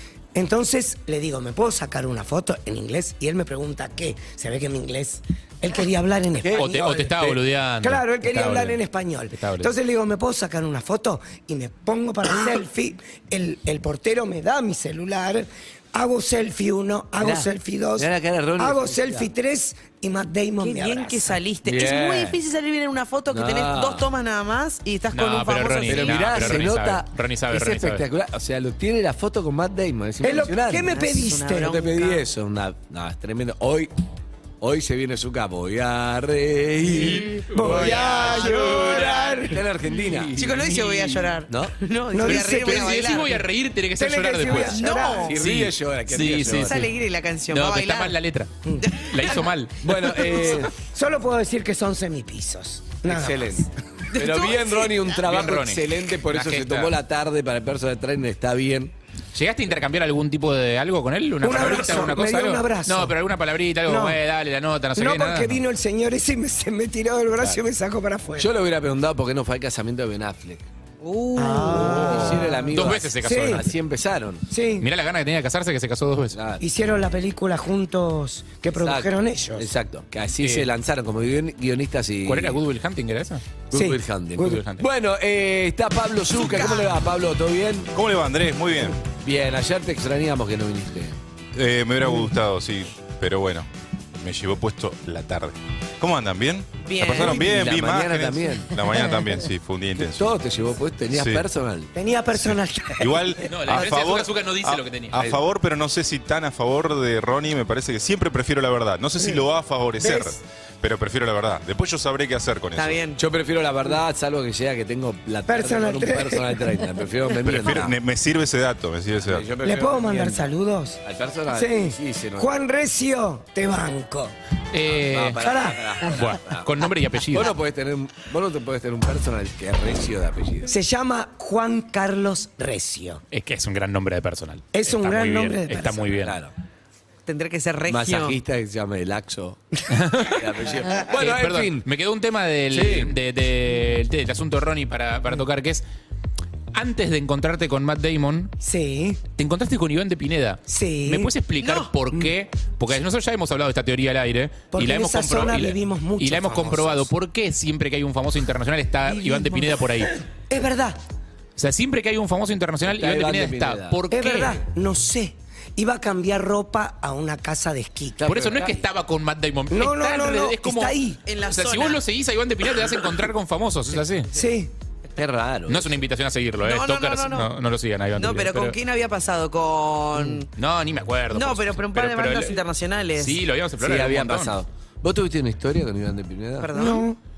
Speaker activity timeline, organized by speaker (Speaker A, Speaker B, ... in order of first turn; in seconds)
Speaker A: 0.3-7.0, 7.8-21.4, 30.2-31.8, 37.5-39.6, 42.1-43.0, 44.0-45.3, 50.5-53.7, 61.4-63.1, 63.9-64.2, 65.0-68.5, 71.3-72.7, 73.2-73.6, 74.5-74.9, 76.6-79.7, 83.7-84.6, 101.9-103.4, 110.0-110.3, 115.5-116.7, 119.6-124.3, 125.4-126.1, 130.7-133.2, 134.7-136.1, 148.6-149.2, 150.7-151.3, 154.7-157.1, 159.2-159.7, 160.5-161.0, 164.1-168.7, 169.7-171.2, 174.3-174.7, 186.7-187.2
Speaker B: 6.4-7.4, 17.2-19.3, 21.6-22.4, 23.3-24.1, 25.9-30.9, 31.6-33.9, 34.6-40.9, 41.5-41.7, 45.2-46.8, 49.8-50.7, 53.0-58.9, 68.4-70.7, 71.7-74.4, 76.3-76.6, 78.8-82.6, 83.7-87.9, 89.2-91.2, 97.1-98.7, 100.0-101.9, 105.2-105.4, 113.2-118.0, 119.2-120.4, 121.0-122.5, 124.9-126.7, 127.3-130.7, 136.2-136.5, 137.9-141.8, 142.7-143.1, 162.8-164.0, 168.2-168.8, 175.2-176.0, 183.8-186.7
Speaker C: 6.5-8.8, 9.3-9.7, 25.1-28.1, 37.0-38.5, 40.1-41.1, 42.5-44.8, 45.3-46.9, 47.5-49.8, 55.2-56.9, 59.3-65.6, 72.7-73.6, 74.8-76.3, 80.4-80.7, 82.2-83.4, 84.4-84.8, 103.5-105.2, 124.7-125.4, 126.0-127.5, 133.3-136.3, 139.9-140.4, 141.0-145.8, 146.7-148.5, 149.4-160.1, 161.6-164.6, 168.2-171.0, 171.5-174.3, 175.7-178.7, 180.6-182.6, 183.2-184.5
Speaker D: 20.6-26.6, 30.8-32.2, 37.7-39.5, 40.3-43.4, 44.7-45.4, 46.4-48.2, 48.8-49.4, 54.1-55.1, 71.0-72.6, 86.5-86.8, 96.8-97.5, 112.8-113.2, 137.2-138.4, 151.6-151.9, 171.2-172.0, 176.6-177.5, 178.2-180.5, 181.3-183.4, 186.6-187.1
Speaker E: 87.9-89.0, 91.5-93.7, 94.2-100.3, 101.1-101.5, 103.0-113.0, 117.4-119.5